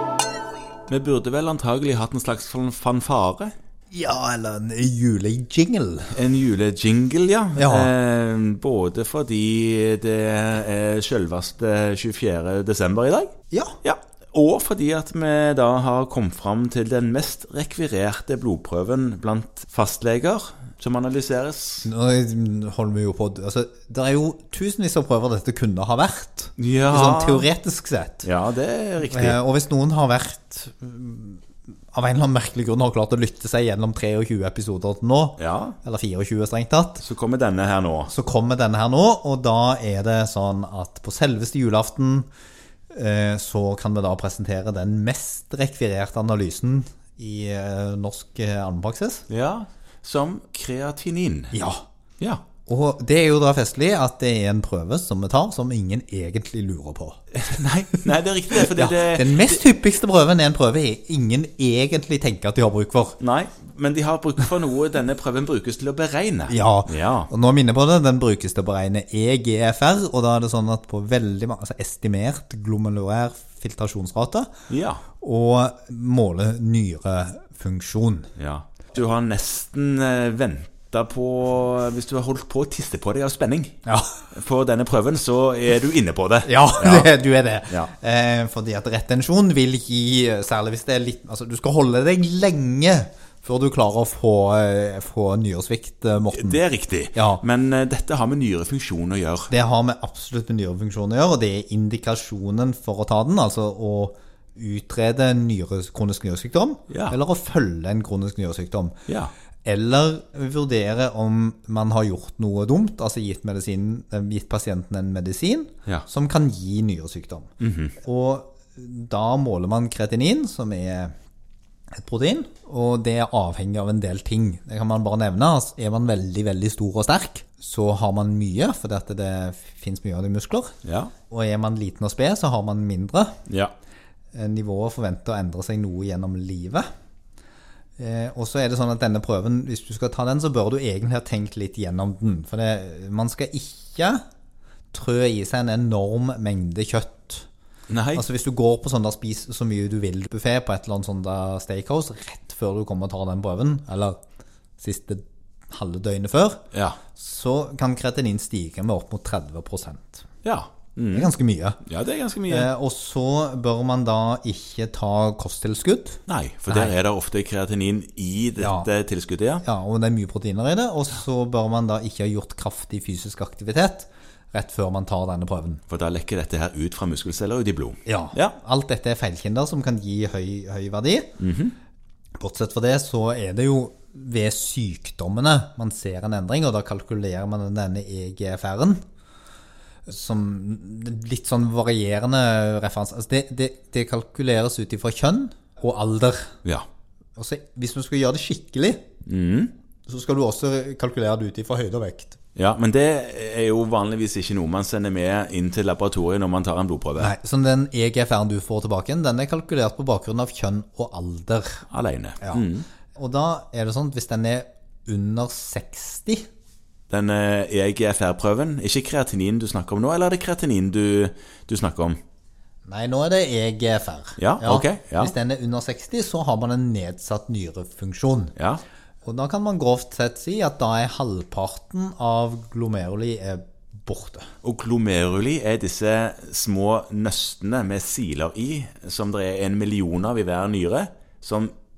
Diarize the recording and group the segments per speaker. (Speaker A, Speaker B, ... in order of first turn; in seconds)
Speaker A: 0.9-3.5, 6.1-13.3, 13.8-21.9, 26.6-27.5, 28.2-29.4, 35.4-35.8, 37.0-38.1, 49.3-51.5, 57.3-59.6, 63.2-67.3, 74.7-75.0, 78.4-83.8, 84.3-87.1, 96.3-99.5, 106.9-107.2, 117.6-118.0, 130.8-131.1, 133.5-133.7, 147.9-148.2, 156.7-157.0, 160.4-161.3, 161.8-162.7, 166.3-169.6, 175.9-178.6, 181.4-181.8, 199.2-199.7, 202.6-207.3, 211.9-212.8, 217.1-222.2, 224.4-225.3, 228.6-228.8, 234.6-241.7
Speaker B: 3.9-6.1, 7.5-7.9, 13.5-13.8, 21.8-28.3, 29.1-37.0, 38.1-42.3, 42.9-49.2, 51.5-51.8, 52.7-57.2, 58.7-63.2, 66.5-74.5, 75.2-78.3, 83.9-84.2, 86.5-96.6, 97.1-97.4, 99.5-109.0, 109.7-117.5, 118.0-121.1, 121.9-130.7, 131.3-133.4, 134.3-136.9, 138.0-144.2, 144.9-147.5, 148.2-154.2, 154.8-156.6, 157.2-160.2, 161.1-161.8, 162.5-166.9, 168.6-168.9, 169.6-175.8, 178.1-181.4, 182.4-189.0, 190.1-196.5, 197.4-199.0, 200.1-202.4, 207.2-211.9, 213.2-216.5, 222.9-228.5, 229.2-234.5